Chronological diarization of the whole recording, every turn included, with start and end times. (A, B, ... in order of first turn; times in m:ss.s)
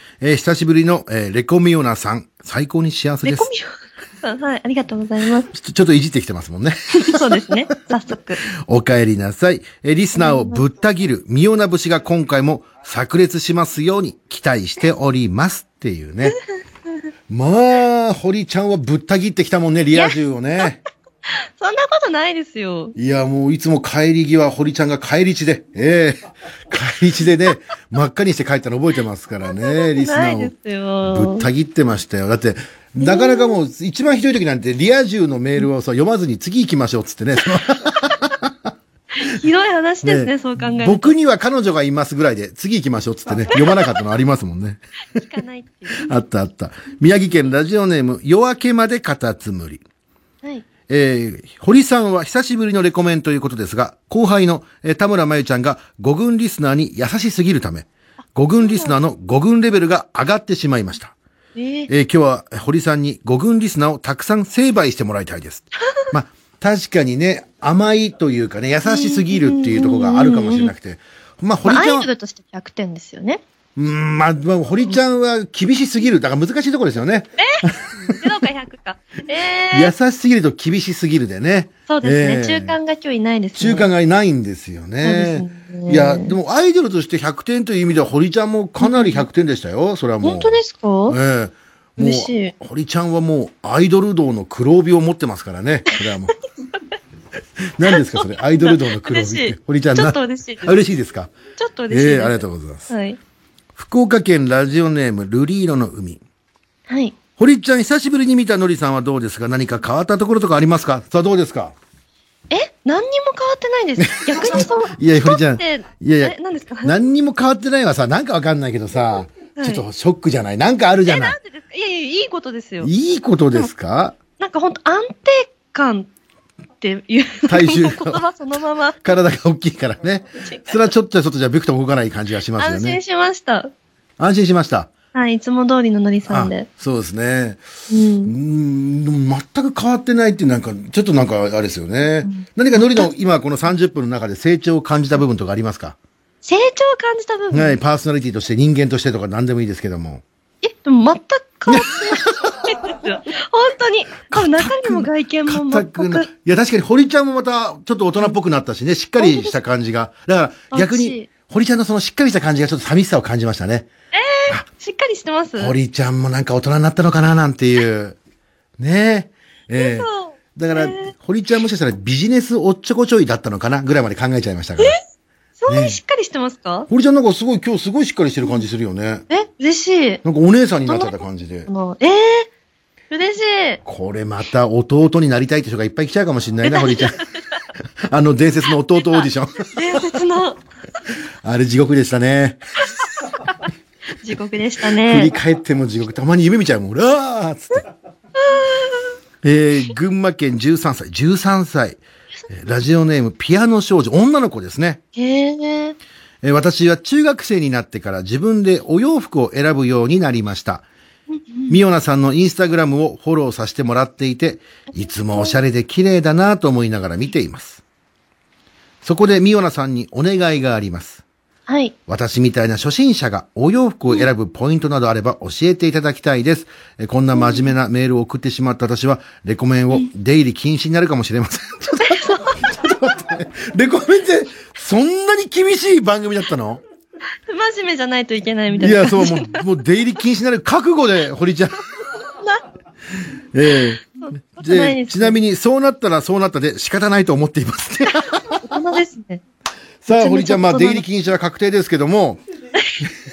0:00.2-0:03.5 A
0:03.2-0:05.5 B
0:05.5-0:07.6 A
0:07.0-0:08.4 B
0:08.6-0:16.4 A
0:10.2-0:10.6 B
0:17.3-0:20.8 A
0:21.4-0:22.9 B
0:23.0-0:30.5 A
0:29.6-0:31.5 B
0:31.0-0:38.5 A
0:33.0-0:33.6 B
0:39.1-0:41.1 B
0:40.0-0:44.8 A
0:43.5-0:43.8 B
0:45.2-0:46.1 B
0:45.9-0:49.8 A
0:50.9-1:01.1 A
0:58.6-0:59.0 B
1:01.6-1:01.9 B
1:01.9-1:12.1 A
1:08.8-1:10.7 B
1:11.6-1:13.4 B
1:13.8-1:18.2 A
1:17.4-1:19.9 B
1:19.7-1:22.8 A
1:21.9-1:23.9 B
1:23.5-1:36.3 A
1:25.0-1:26.3 B
1:28.8-1:29.2 B
1:30.2-1:31.2 B
1:32.0-1:32.5 B
1:37.8-1:41.3 A
1:37.9-1:40.8 B
1:41.6-1:43.2 B
1:41.9-1:42.9 A
1:43.8-1:46.2 A
1:46.9-1:47.2 B
1:47.4-1:51.7 A
1:52.5-1:57.0 B
1:54.0-2:01.4 A
1:59.6-1:59.8 B
2:01.1-2:02.9 B
2:02.8-2:04.2 A
2:04.4-2:06.1 B
2:06.8-2:09.0 B
2:07.5-2:08.2 A
2:09.0-2:13.0 A
2:10.4-2:10.8 B
2:12.6-2:13.7 B
2:14.2-2:14.9 A
2:15.1-2:16.7 B
2:16.3-2:17.6 A
2:17.9-2:18.3 B
2:18.2-2:26.0 A
2:22.2-2:23.1 B
2:26.4-2:27.8 B
2:27.5-2:30.2 A
2:30.6-2:36.3 B
2:31.7-2:32.6 A
2:34.3-2:43.9 A
2:39.2-2:39.6 B
2:40.7-2:41.3 B
2:44.1-2:45.7 B
2:45.6-2:48.2 A
2:48.8-2:55.0 A
2:49.8-2:51.1 B
2:55.6-2:56.9 B
2:55.7-2:56.0 A
2:56.9-2:59.2 A
2:59.3-3:00.2 B
3:00.2-3:01.7 A
3:00.8-3:02.5 B
3:03.1-3:03.8 B
3:03.8-3:07.2 A
3:06.6-3:07.2 B
3:08.0-3:10.0 A
3:09.7-3:10.6 B
3:11.4-3:12.6 A
3:14.2-3:15.3 B
3:15.0-3:17.9 A
3:18.4-3:19.0 B
3:19.4-3:25.0 A
3:25.2-3:26.0 B
3:26.4-3:30.8 A
3:31.3-3:31.8 B
3:31.7-3:37.8 A
3:35.0-3:35.6 B
3:39.0-3:41.2 A
3:41.7-3:41.9 B
3:42.1-3:56.8 A
3:47.4-3:47.6 B
3:52.0-3:52.6 B
3:57.5-3:59.6 B
3:58.8-4:01.8 A
4:03.5-4:08.8 A
4:04.2-4:05.4 B
4:08.5-4:09.4 B
4:10.0-4:12.4 A
4:10.1-4:11.0 B